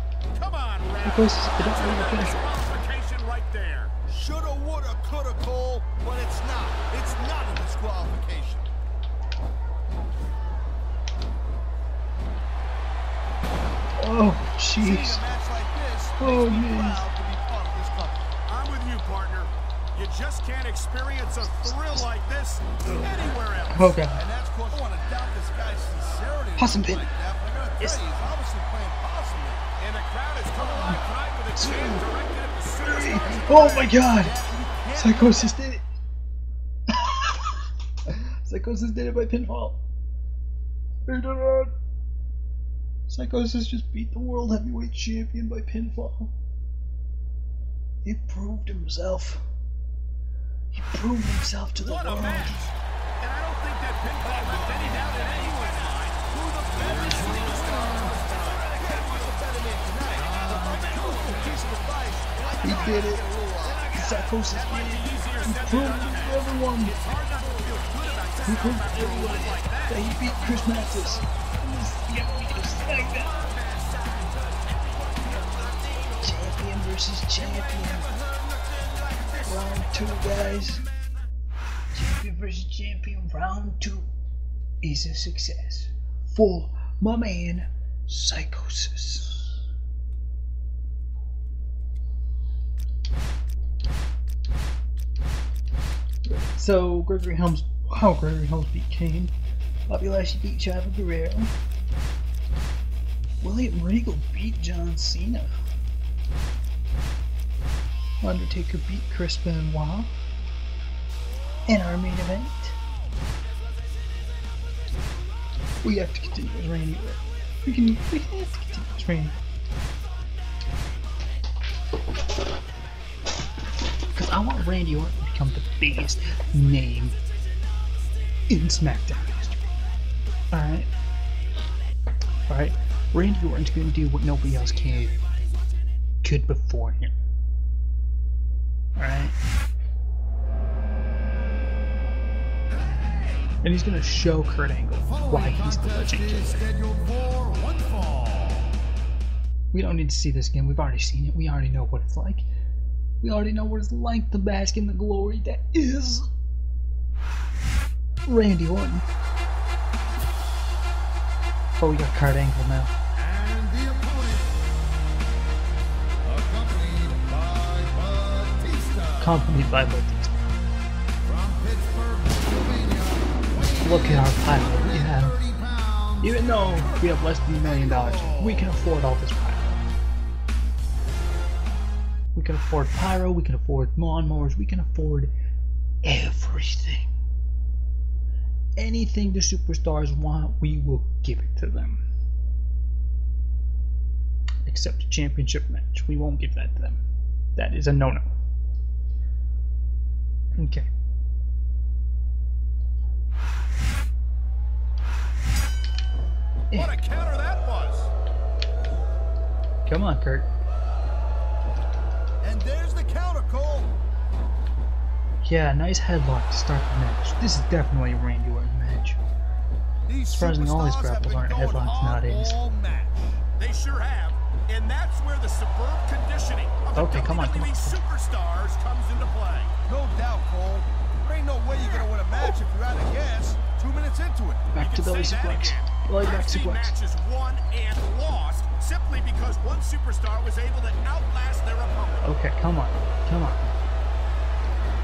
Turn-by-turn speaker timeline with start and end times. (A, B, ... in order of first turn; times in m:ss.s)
0:00.3-0:03.9 A
0:01.0-0:02.4 B
0:04.1-0:08.7 C
0:14.0-0:15.2 B
0:14.8-0:18.2 C
0:16.2-0:17.0 B
0:18.5-0:24.0 A
0:23.7-0:24.2 B
0:24.1-0:29.7 C
0:26.6-0:27.1 B
0:29.8-0:33.9 A
0:30.6-0:31.0 B
0:31.6-0:32.0 B
0:32.8-0:34.4 B
0:33.3-0:35.5 C
0:34.9-0:35.8 B
0:36.9-0:39.8 B
0:41.1-0:41.7 B
0:43.1-0:46.3 B
0:48.0-0:49.4 B
0:50.7-0:52.6 B
0:51.8-0:59.3 A
0:54.2-0:57.9 C
0:58.7-1:03.9 C
1:00.2-1:01.6 A
1:02.6-1:03.0 A
1:02.6-1:03.2 B
1:03.6-1:11.0 A
1:03.9-1:06.9 B
1:08.4-1:13.5 B
1:12.6-1:16.2 A
1:16.2-1:18.1 B
1:17.4-1:19.4 A
1:19.4-1:20.8 B
1:21.9-1:24.1 B
1:24.8-1:29.6 B
1:36.2-1:39.3 B
1:39.9-1:41.5 B
1:43.4-1:45.5 B
1:48.2-1:50.1 B
1:51.7-1:52.8 B
1:55.8-1:59.4 B
2:04.1-2:07.2 B
2:08.5-2:09.6 B
2:10.5-2:10.9 B
2:12.5-2:15.2 B
2:16.2-2:17.1 B
2:19.0-2:19.4 B
2:23.6-2:26.6 B
2:25.0-2:28.8 C
2:29.7-2:32.5 B
2:33.2-2:36.3 B
2:38.2-2:39.0 B
2:41.8-2:43.0 B
2:43.2-2:44.5 C
2:46.2-2:49.4 C
2:49.2-2:50.5 B
2:51.2-2:58.7 C
2:53.8-2:55.4 B
2:56.2-2:59.9 B
3:02.3-3:05.3 B
3:06.0-3:07.1 B
3:08.8-3:12.0 B
3:14.6-3:17.0 B
3:17.6-3:18.3 B
3:20.6-3:20.9 B
3:26.7-3:27.0 B
3:26.7-3:28.1 A
3:29.8-3:30.5 B
3:32.4-3:33.9 C
3:35.4-3:39.2 B
3:40.0-3:43.4 C
3:40.3-3:42.6 B
3:43.6-3:49.7 A
3:46.9-3:48.0 B
3:49.9-3:54.7 C
3:54.7-3:56.9 B
3:54.8-4:02.3 A
4:02.2-4:03.6 B